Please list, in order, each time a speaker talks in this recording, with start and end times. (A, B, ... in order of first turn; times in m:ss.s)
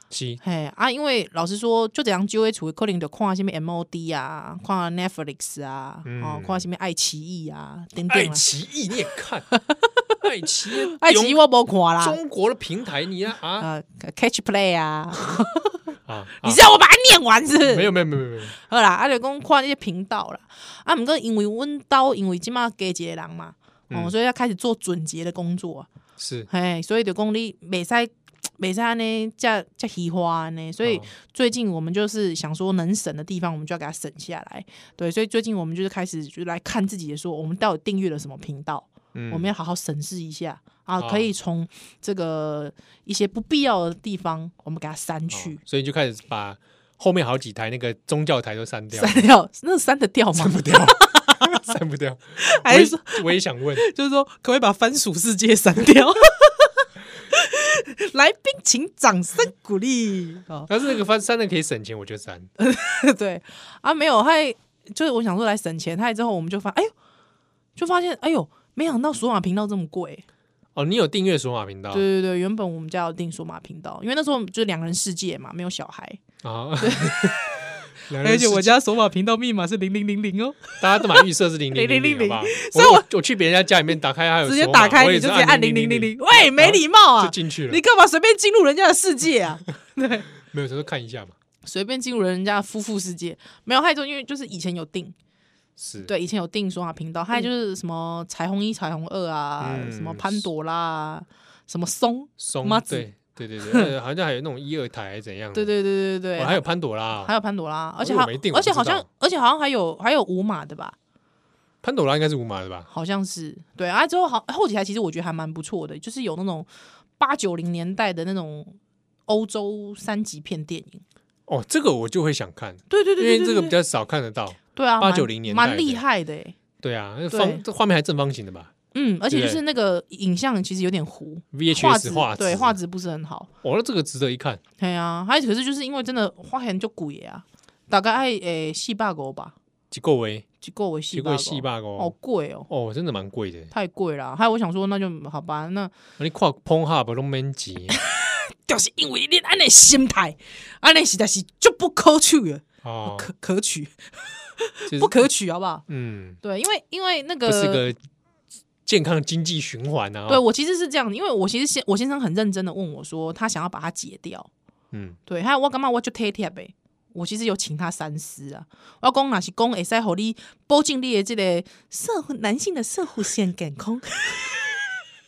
0:00.1-0:00.4 A
0:00.4-0:08.4 B
0:06.0-0:06.6 A
0:08.1-0:09.4 A
0:09.5-0:09.9 B
0:10.2-0:11.4 A
0:10.9-0:12.2 B
0:12.0-0:13.7 A
0:13.6-0:15.8 B
0:16.1-0:16.6 A
0:16.4-0:17.9 B
0:17.6-0:18.6 A
0:18.5-0:25.9 B
0:26.2-0:26.5 A
0:26.5-0:45.6 B
0:30.8-0:31.1 A
0:39.1-0:39.5 A
0:41.0-0:41.3 A
0:45.3-0:49.3 A
0:48.9-0:51.4 B
0:50.4-0:53.8 A
0:52.4-1:00.7 B
1:00.7-1:02.5 A
1:02.6-1:06.9 B
1:07.8-1:10.2 B
1:10.8-1:12.0 A
1:11.9-1:16.2 B
1:16.4-1:17.5 A
1:16.8-1:17.4 B
1:18.0-1:18.8 A
1:18.2-1:23.1 B
1:20.8-1:27.8 A
1:24.4-1:30.3 B
1:30.4-1:31.4 A
1:31.6-1:35.2 B
1:35.8-1:36.1 A
1:36.0-1:43.1 B
1:39.6-1:40.5 A
1:42.4-1:45.7 A
1:43.6-1:43.9 B
1:45.5-1:46.6 B
1:46.4-1:47.3 A
1:47.2-1:51.0 B
1:48.0-1:49.1 A
1:51.8-1:52.9 A
1:52.9-2:01.0 B
2:01.5-2:06.0 A
2:02.9-2:03.8 B
2:04.8-2:06.6 B
2:06.8-2:08.7 A
2:07.3-2:07.6 B
2:08.9-2:13.5 B
2:09.3-2:09.6 A
2:11.5-2:12.8 A
2:13.6-2:14.6 A
2:14.8-2:19.6 B
2:19.9-2:20.4 A
2:20.6-2:22.7 B
2:21.1-2:22.1 A
2:22.7-2:23.7 A
2:23.7-2:25.9 B
2:26.2-2:28.0 A
2:27.9-2:35.8 B
2:32.8-2:33.3 A
2:34.9-2:35.3 A
2:35.9-2:36.4 A
2:36.4-2:37.9 B
2:37.4-2:38.0 A
2:38.9-2:40.4 A
2:40.3-2:44.5 B
2:44.9-2:45.2 A
2:45.3-2:54.9 B